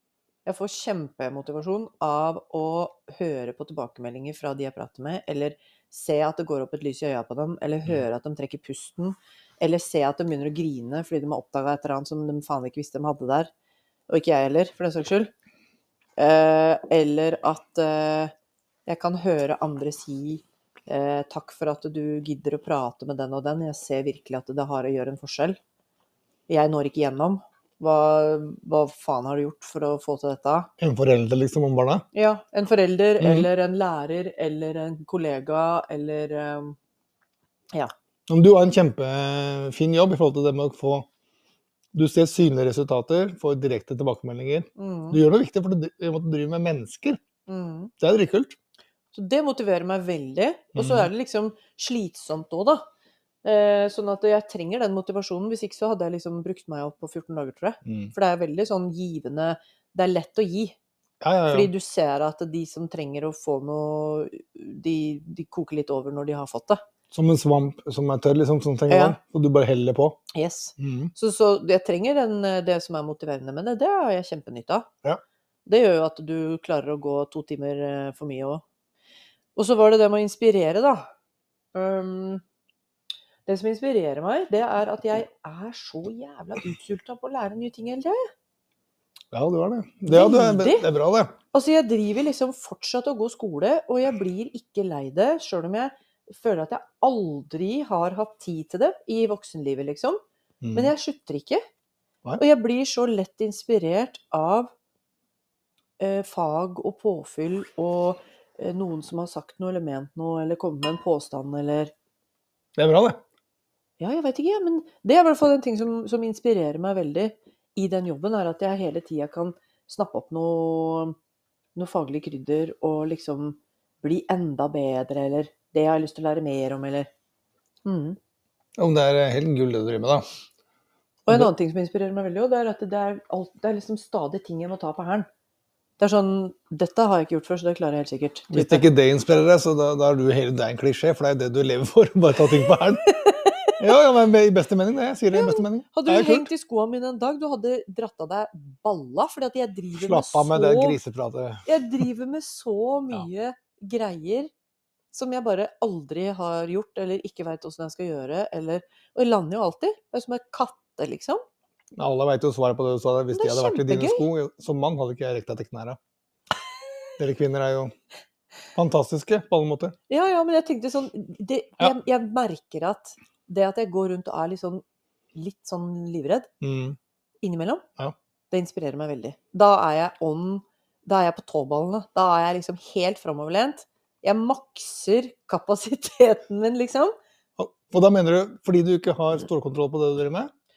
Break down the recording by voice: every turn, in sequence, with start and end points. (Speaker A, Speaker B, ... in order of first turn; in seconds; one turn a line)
Speaker A: 0.4-13.5
Speaker A: 14.1-15.3
Speaker A: 16.2-18.3
Speaker A: 18.9-25.6
Speaker A: 26.5-30.7
Speaker B: 30.8-32.0
Speaker A: 32.1-36.8
Speaker B: 33.2-33.5
Speaker B: 38.3-41.1
Speaker B: 41.9-47.2
Speaker A: 44.8-45.2
Speaker A: 47.5-47.9
Speaker B: 48.0-48.5
Speaker A: 49.1-52.8
Speaker B: 50.7-51.1
Speaker A: 53.4-60.8
Speaker B: 57.8-58.1
Speaker B: 61.2-61.7
Speaker A: 61.5-66.8
Speaker B: 67.1-70.2
Speaker A: 68.9-69.2
Speaker A: 70.3-74.9
Speaker B: 70.8-71.1
Speaker A: 75.7-78.6
Speaker A: 79.5-81.1
Speaker A: 81.7-82.4
Speaker A: 83.5-88.3
Speaker B: 89.3-91.3
Speaker A: 90.1-90.9
Speaker A: 91.5-100.2
Speaker B: 100.6-100.9
Speaker A: 100.7-101.6
Speaker A: 102.4-104.7
Speaker A: 106.0-111.9
Speaker B: 112.8-113.2
Speaker A: 114.0-121.2
Speaker A: 121.7-127.1
Speaker A: 127.8-128.2
Speaker B: 128.8-130.2
Speaker A: 131.3-135.3
Speaker A: 136.0-138.8
Speaker B: 138.5-143.0
Speaker A: 142.7-143.8
Speaker B: 143.8-146.5
Speaker A: 145.3-151.0
Speaker B: 149.9-152.0
Speaker A: 151.7-154.5
Speaker A: 155.1-161.4
Speaker B: 161.9-166.0
Speaker A: 163.3-164.2
Speaker B: 167.2-167.9
Speaker B: 168.7-169.9
Speaker A: 170.1-174.8
Speaker A: 175.3-176.5
Speaker B: 176.6-177.0
Speaker A: 177.4-177.8
Speaker A: 178.5-187.1
Speaker B: 187.6-190.5